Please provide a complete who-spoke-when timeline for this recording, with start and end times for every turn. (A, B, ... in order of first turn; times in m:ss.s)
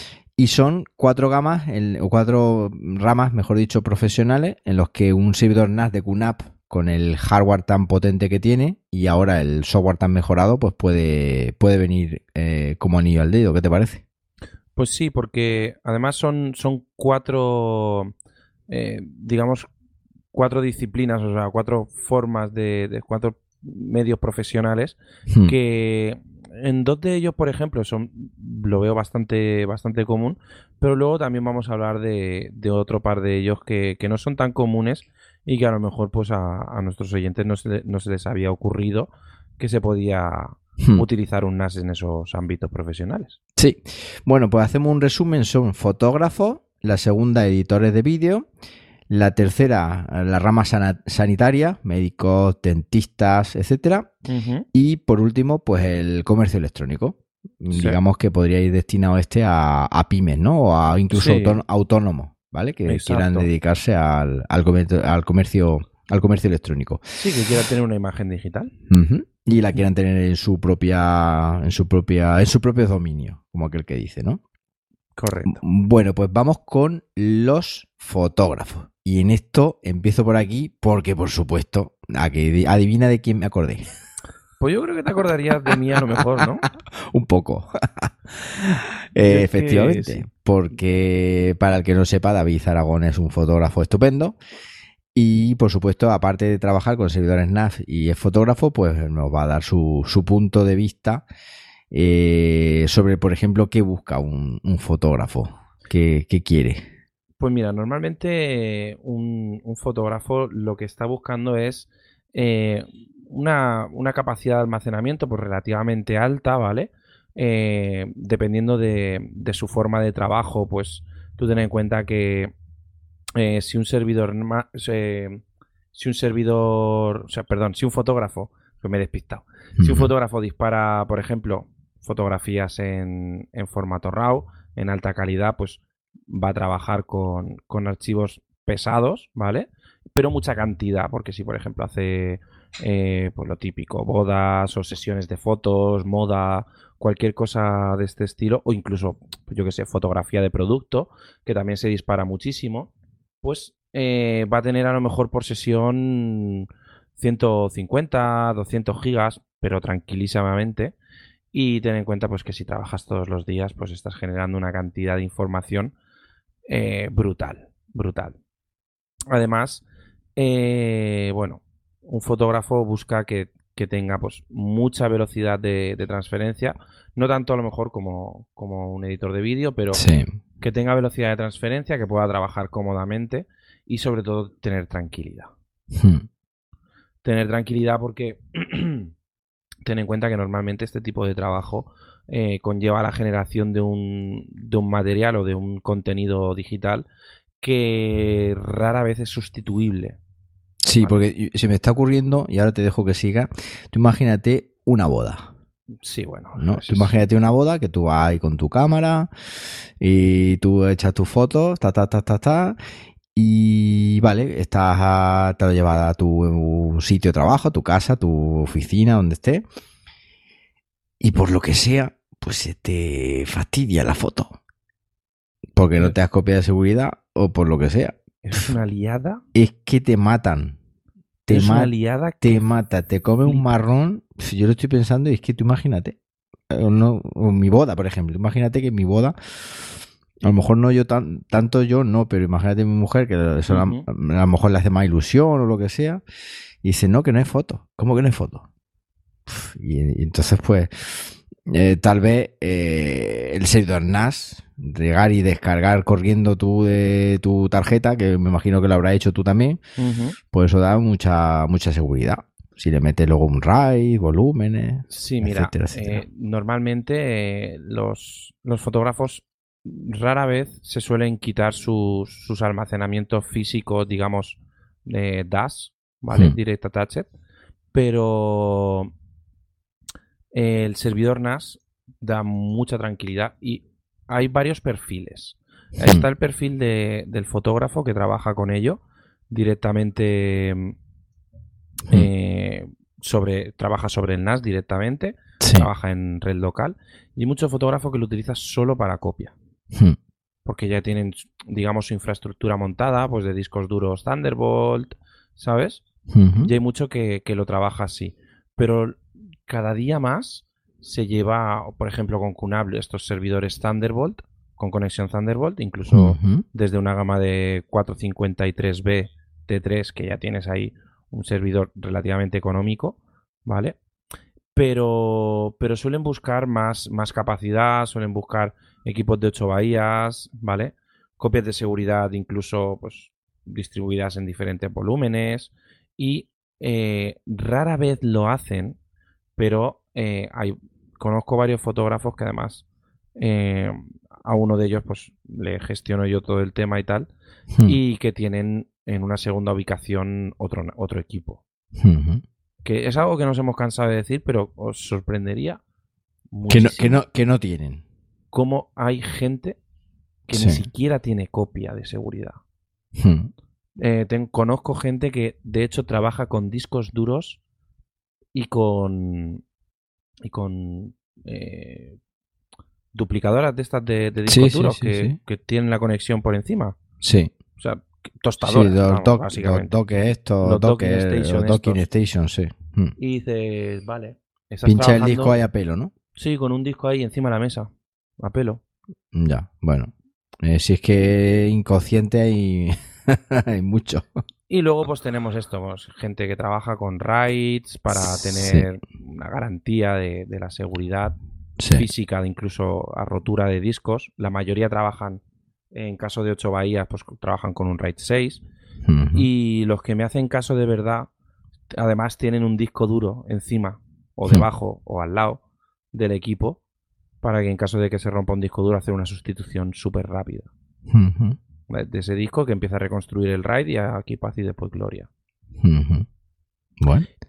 0:00.3-0:14.0 A
0:14.8-0:18.1 B
0:18.7-0:19.7 B
0:20.3-0:43.4 B
0:25.3-0:25.6 A
0:40.8-0:41.0 A
0:43.6-0:48.5 A
0:49.1-0:54.1 A
0:54.3-0:54.6 B
0:54.7-1:07.0 A
0:57.7-0:58.0 B
1:01.1-1:01.6 B
1:02.8-1:03.5 B
1:07.2-1:08.7 B
1:08.9-1:14.4 A
1:15.2-1:15.6 B
1:15.5-1:23.8 A
1:24.6-1:26.6 B
1:27.0-1:34.4 A
1:29.3-1:30.2 B
1:35.1-1:41.2 A
1:41.9-1:46.8 A
1:47.4-2:02.5 B
2:03.3-2:05.4 B
2:05.9-2:32.9 B
2:09.8-2:10.1 A
2:33.4-2:40.9 B
2:41.5-2:45.9 B
2:46.7-2:48.3 B
2:49.3-2:49.8 B
2:50.4-3:00.0 B
2:59.9-3:00.4 A
3:00.6-3:05.5 B
3:05.9-3:06.3 A
3:07.2-3:09.1 B
3:09.8-3:17.0 B
3:17.6-3:20.2 B
3:20.8-3:25.5 A
3:21.0-3:21.2 B
3:26.0-3:27.1 B
3:26.6-3:29.3 A
3:30.0-3:32.8 A
3:33.3-3:39.6 A
3:41.2-3:44.6 A
3:45.7-3:48.7 A
3:48.4-3:49.4 B
3:49.5-3:50.8 A
3:51.4-3:56.2 A
3:51.5-3:52.6 B
3:56.7-3:59.9 A
4:00.4-4:06.2 A
4:03.7-4:04.0 B
4:06.8-4:08.6 A
4:09.5-4:19.8 A
4:20.0-4:20.4 B
4:20.5-4:26.2 A
4:25.1-4:37.3 B
4:37.9-4:39.1 B
4:40.5-4:49.0 B
4:49.5-4:50.9 B
4:52.1-4:59.5 B
4:55.6-4:55.9 A
5:00.6-5:06.0 B
5:06.3-5:06.7 A
5:06.6-5:24.0 B
5:16.1-5:16.6 A
5:24.7-5:39.0 B
5:39.6-5:42.8 B
5:43.4-5:47.3 B
5:47.8-5:51.6 B
5:52.0-5:52.4 A
5:52.8-5:55.8 B
5:56.5-5:57.2 B
5:56.7-5:58.0 A
5:58.5-5:59.8 B
6:00.5-6:00.8 A
6:00.5-6:02.6 B
6:03.2-6:03.5 A
6:04.0-6:07.6 B
6:08.5-6:09.6 B
6:10.4-6:12.2 B
6:13.1-6:17.0 B
6:14.5-6:15.4 A
6:17.2-6:17.5 A
6:17.8-6:20.0 B
6:18.6-6:23.1 A
6:20.6-6:22.0 B
6:23.2-6:25.6 B
6:24.8-6:26.1 A
6:26.4-6:28.8 B
6:29.3-6:34.3 A
6:34.7-6:41.4 B
6:38.1-6:38.8 A
6:41.8-6:42.0 A
6:41.9-6:48.6 B
6:49.0-6:49.5 A
6:49.3-6:51.3 B
6:51.9-6:55.6 B
6:56.1-6:56.8 B
6:57.4-7:00.7 B
7:01.1-7:01.6 A
7:01.9-7:05.3 B
7:05.8-7:06.3 A
7:07.0-7:07.3 A